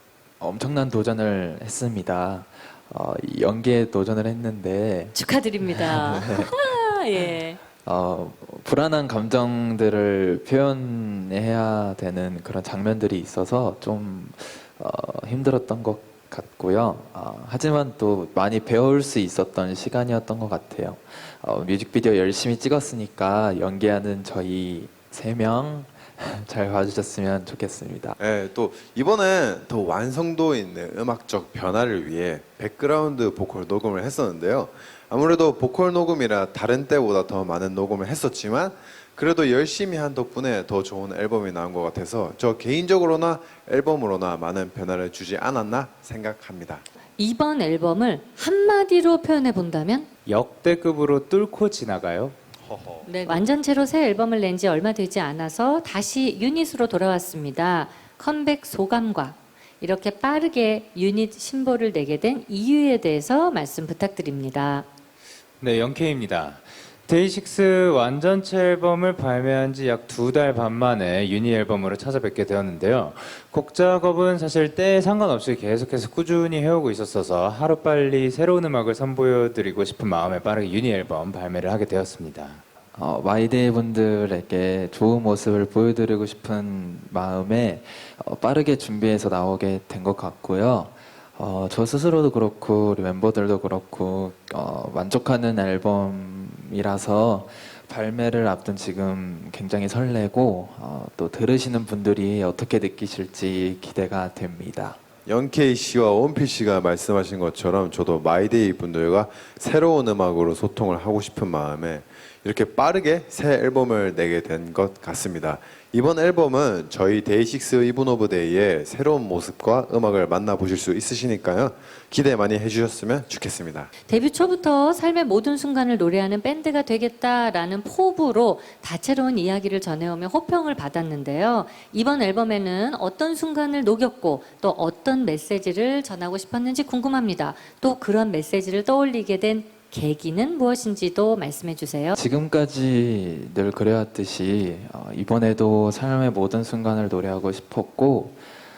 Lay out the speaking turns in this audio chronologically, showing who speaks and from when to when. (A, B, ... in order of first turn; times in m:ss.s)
0:00.4-0:06.6 A
0:05.1-0:07.6 B
0:07.8-0:28.2 A
0:28.2-0:46.8 C
0:47.2-0:50.1 B
0:50.2-0:52.4 D
0:52.7-0:53.0 C
0:53.1-1:04.9 B
1:05.6-1:22.6 D
1:22.9-1:45.0 A
1:45.2-2:03.9 C
2:04.1-2:22.2 B
2:22.2-2:28.4 A